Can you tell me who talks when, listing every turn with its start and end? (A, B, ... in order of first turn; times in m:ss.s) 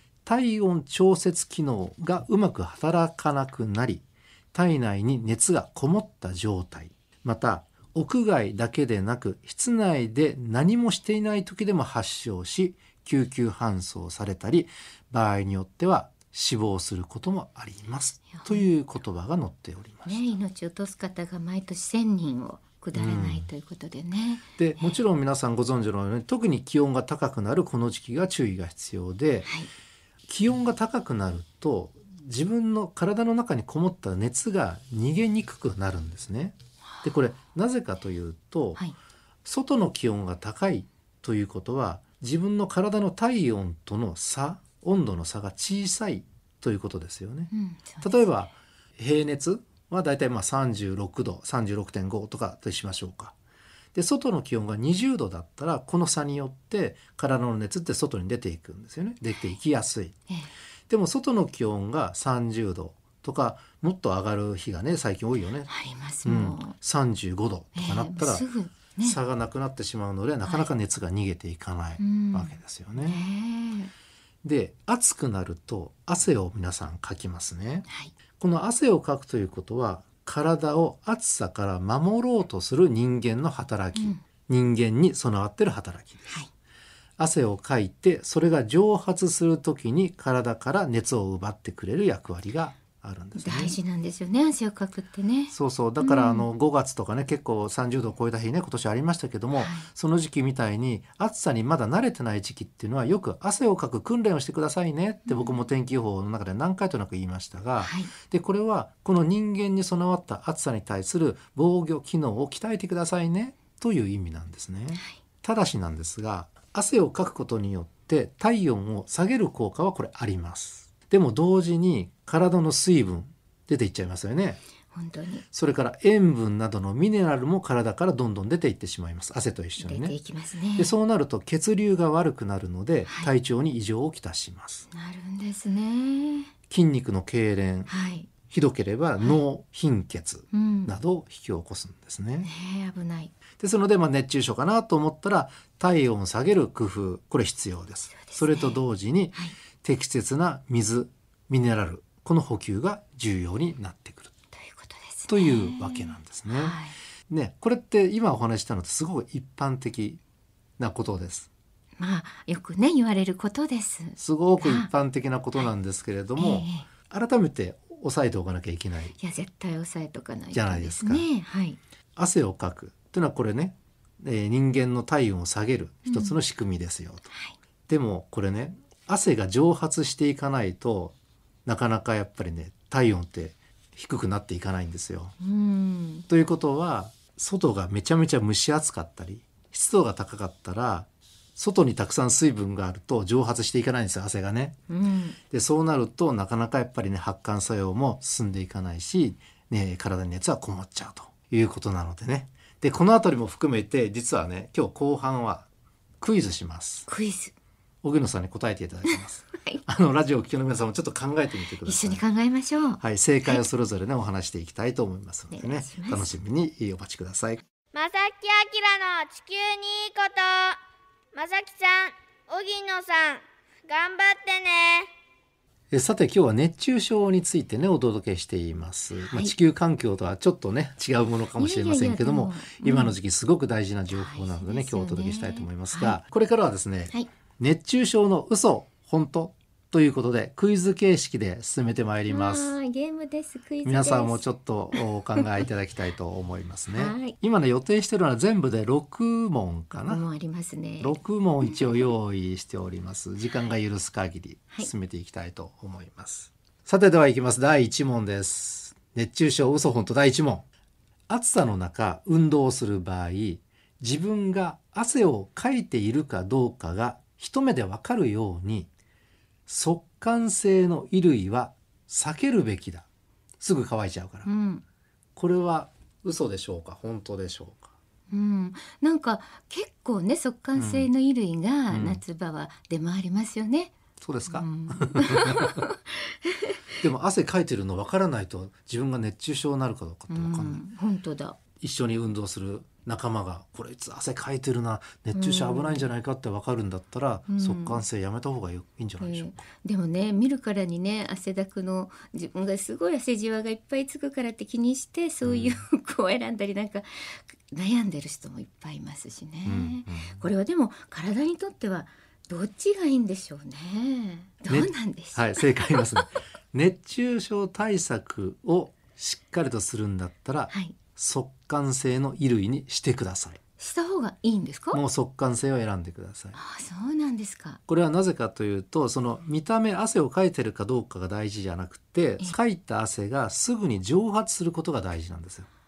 0:00.2-0:20.3 A
0:18.4-0:18.7 B
0:20.0-0:25.0 B
0:22.9-0:23.5 A
0:24.6-0:29.5 A
0:29.5-0:29.7 B
0:30.3-0:38.8 A
0:39.4-0:53.3 A
0:47.5-0:48.3 B
0:53.9-1:00.2 A
1:00.9-1:05.7 A
1:05.7-1:06.8 B
1:06.2-1:08.5 A
1:07.8-1:09.2 B
1:09.0-1:13.2 A
1:12.0-1:13.9 B
1:14.4-1:17.9 A
1:18.4-1:26.3 A
1:24.0-1:24.2 B
1:27.2-1:33.8 A
1:33.4-1:36.5 B
1:35.5-2:04.6 A
1:39.6-1:39.9 B
1:45.3-1:45.6 B
1:47.8-1:48.1 B
2:04.9-2:05.5 B
2:05.5-2:10.2 A
2:09.8-2:10.9 B
2:10.8-2:14.9 A
2:13.1-2:13.3 B
2:14.9-2:16.5 B
2:16.7-2:17.9 A
2:17.9-2:18.3 B
2:18.4-2:22.5 A
2:20.5-2:20.9 B
2:22.4-2:23.3 B
2:23.6-2:34.3 A
2:28.2-2:28.8 B
2:34.5-2:37.0 B
2:35.3-2:36.8 A
2:37.3-2:40.2 A
2:40.8-2:41.5 A
2:42.0-2:44.9 B
2:44.2-2:49.2 A
2:46.4-2:46.9 B
2:49.2-2:51.8 B
2:50.5-2:51.3 A
2:52.2-2:57.3 A
2:56.1-2:56.4 B
2:57.9-3:01.1 A
3:01.7-3:05.3 A
3:05.4-3:06.3 B
3:06.3-3:14.8 A
3:14.9-3:15.4 B
3:15.5-3:25.7 A
3:26.2-3:27.1 A
3:27.1-3:27.5 B
3:28.0-3:32.2 A
3:31.8-3:33.7 B
3:33.0-3:37.6 A
3:35.5-3:36.4 B
3:37.9-3:40.8 C
3:41.3-3:45.1 C
3:45.9-4:02.8 A
3:49.2-3:49.5 B
3:51.5-3:53.2 B
3:54.1-3:56.2 B
4:02.3-4:04.4 B
4:03.8-4:10.2 A
4:06.9-4:07.3 B
4:09.9-4:12.0 B
4:11.0-4:20.6 A
4:21.3-4:28.9 A
4:29.7-4:33.0 A
4:33.6-4:34.5 A
4:34.4-4:34.8 B
4:35.4-4:37.9 A
4:38.3-4:43.9 B
4:40.8-4:41.1 A
4:41.9-4:42.2 A
4:44.2-4:45.9 A
4:44.5-4:47.0 B
4:47.0-4:50.8 A
4:50.3-4:51.6 B
4:51.8-4:59.6 A
4:55.3-4:56.1 B
4:57.5-4:58.0 B
4:59.2-5:16.3 B
5:05.4-5:05.8 A
5:09.6-5:10.4 A
5:14.7-5:23.6 A
5:20.7-5:21.0 B
5:23.8-5:25.0 B
5:24.9-5:26.6 A
5:26.5-5:27.8 B
5:27.9-5:35.7 A